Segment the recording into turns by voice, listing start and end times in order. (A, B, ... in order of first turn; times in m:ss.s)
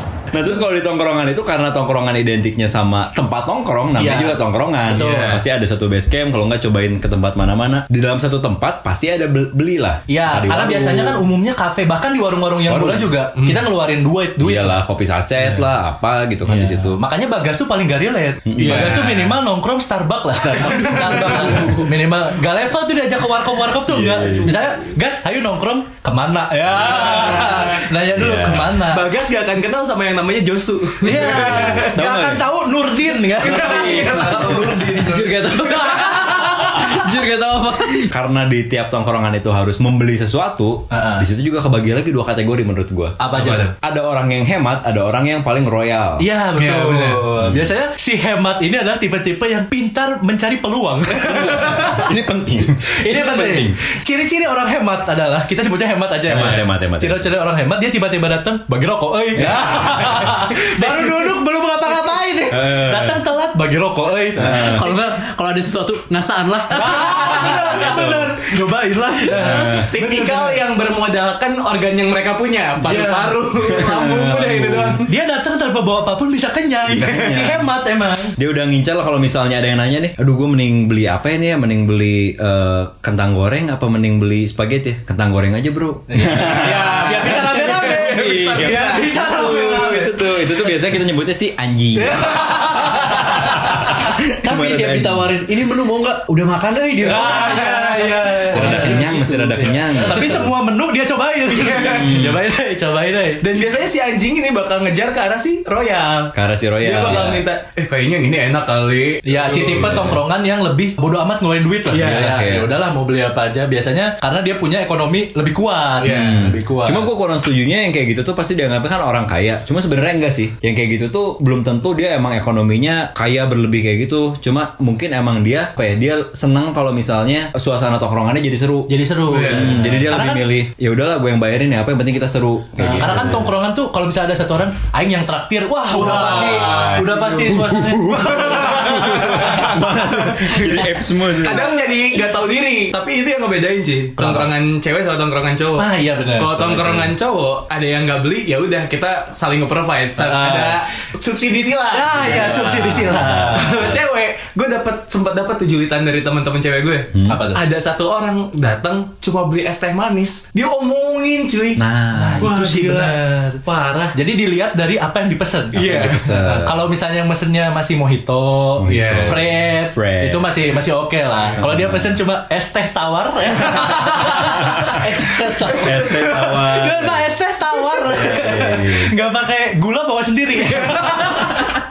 0:00.3-0:11.2 A
0:03.9-0:05.3 B
0:04.9-0:05.4 C
0:10.1-0:14.8 B
0:12.7-0:13.1 A
0:13.3-0:13.6 C
0:14.4-0:17.0 A
0:16.4-0:29.1 B
0:18.4-0:19.4 A
0:18.6-0:19.2 C
0:20.6-0:21.8 C
0:23.9-0:24.6 A
0:26.6-0:27.8 C
0:26.7-0:27.2 A
0:28.1-0:28.8 A
0:28.9-0:31.9 C
0:31.0-0:36.3 B
0:31.0-0:32.4 A
0:33.4-0:35.3 C
0:33.4-0:34.2 A
0:34.1-0:38.1 D
0:38.1-0:43.2 A
0:40.9-0:41.2 B
0:43.2-0:43.7 B
0:43.3-0:43.7 C
0:43.8-0:46.2 A
0:46.2-0:52.1 B
0:46.6-0:47.1 D
0:47.3-0:47.7 A
0:51.2-0:53.7 A
0:53.0-1:05.0 B
0:56.3-0:57.3 A
0:59.3-1:00.3 A
1:02.5-1:03.2 A
1:04.4-1:04.9 A
1:04.4-1:07.2 D
1:06.7-1:10.6 B
1:07.3-1:08.3 A
1:09.3-1:09.9 A
1:09.4-1:15.1 C
1:12.8-1:13.4 B
1:13.6-1:14.9 A
1:15.0-1:18.3 B
1:16.8-1:17.6 A
1:18.4-1:35.4 A
1:26.1-1:30.7 B
1:26.5-1:29.2 C
1:32.0-1:33.4 B
1:34.3-1:40.4 D
1:37.0-1:43.5 B
1:37.3-1:37.9 C
1:38.5-1:40.5 A
1:41.8-1:42.4 A
1:43.4-1:50.2 C
1:46.3-1:47.4 A
1:47.0-1:47.4 B
1:49.2-1:57.1 B
1:51.9-1:52.4 C
1:51.9-1:52.7 A
1:56.0-1:56.4 C
1:56.0-2:08.9 A
2:08.9-2:10.4 B
2:09.3-2:09.9 C
2:09.4-2:13.5 A
2:12.8-2:20.4 B
2:15.9-2:17.2 C
2:15.9-2:21.7 A
2:18.3-2:41.8 C
2:24.2-2:24.5 B
2:25.8-2:26.6 B
2:26.6-2:27.1 A
2:30.2-2:30.8 B
2:31.9-2:34.0 B
2:32.2-2:33.8 A
2:37.1-2:37.4 A
2:37.2-2:37.6 B
2:41.8-2:42.4 A
2:42.1-2:43.6 B
2:42.4-2:44.2 C
2:44.1-3:01.6 B
2:45.7-2:46.8 A
2:45.7-2:46.3 C
2:48.8-2:50.5 A
2:48.8-2:49.4 C
2:51.6-2:52.2 A
2:54.5-2:55.0 A
2:54.8-2:55.9 D
2:55.8-2:57.3 A
2:58.0-2:59.1 A